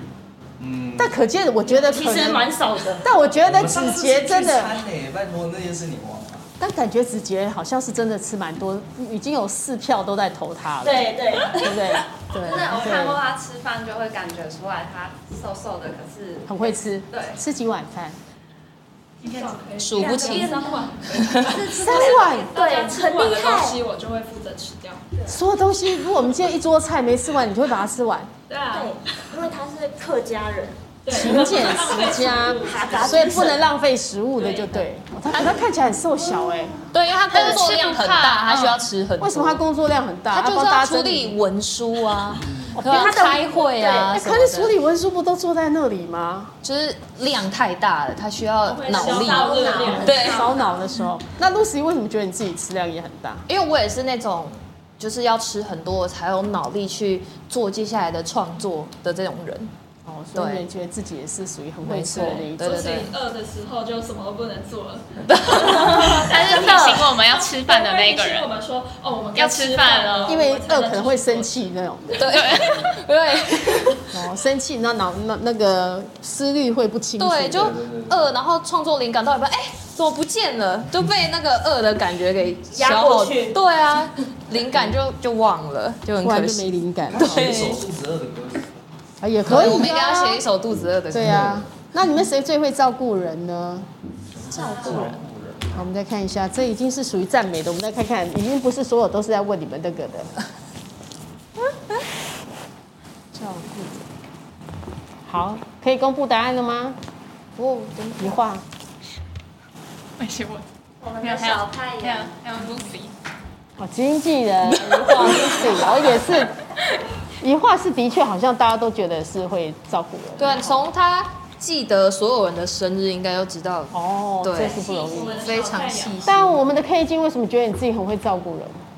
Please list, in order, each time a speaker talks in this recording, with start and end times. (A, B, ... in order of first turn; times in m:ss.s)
0:00.6-0:01.1 A
0:01.0-0:02.5 B
0:01.6-0:03.1 C
0:03.0-0:04.7 B
0:03.4-0:06.5 A
0:06.6-0:13.2 B
0:10.8-0:12.0 C
0:12.4-0:17.4 D
0:16.5-0:18.2 B
0:19.2-0:25.0 E
0:19.2-0:19.6 F
0:19.8-0:20.6 G
0:20.0-0:20.8 C
0:21.2-0:21.5 G
0:21.2-0:22.8 D
0:21.7-0:22.5 B
0:22.5-0:23.8 C
0:25.3-0:28.3 B
0:28.5-0:29.4 E
0:28.7-0:31.6 C
0:31.0-0:33.6 E
0:31.1-0:36.8 B
0:32.5-0:33.6 C
0:34.4-0:34.9 E
0:35.3-0:35.6 G
0:36.9-0:39.6 G
0:37.3-0:38.6 E
0:37.3-0:38.7 F
0:39.2-0:41.4 B
0:40.3-0:44.7 G
0:42.4-0:42.7 A
0:42.7-0:46.5 B
0:43.6-0:44.1 C
0:46.6-0:50.5 G
0:48.6-0:50.9 E
0:49.0-0:53.4 B
0:53.5-0:59.7 G
1:00.0-1:03.0 B
1:00.3-1:00.6 G
1:01.8-1:03.1 G
1:02.6-1:11.6 E
1:05.3-1:06.0 G
1:05.7-1:07.1 C
1:05.8-1:08.5 F
1:09.4-1:10.4 F
1:10.3-1:12.5 B
1:12.2-1:14.2 G
1:12.3-1:12.9 F
1:14.1-1:17.8 B
1:17.2-1:27.8 G
1:17.5-1:18.3 A
1:22.7-1:23.6 C
1:26.2-1:27.5 B
1:27.1-1:28.9 A
1:29.2-1:30.5 B
1:29.4-1:31.6 G
1:31.1-1:33.9 B
1:31.2-1:31.6 A
1:34.4-1:35.7 A
1:34.5-1:35.2 G
1:35.7-1:40.3 B
1:43.4-1:44.0 G
1:45.2-1:47.0 B
1:47.6-1:48.3 G
1:48.2-1:48.6 B
1:50.2-1:50.6 F
1:51.0-1:52.3 D
1:51.2-1:53.1 F
1:53.8-1:56.5 B
1:54.8-1:55.3 G
1:57.4-2:00.8 B
2:00.4-2:06.6 G
2:03.9-2:05.4 B
2:04.7-2:06.3 E
2:06.2-2:08.8 B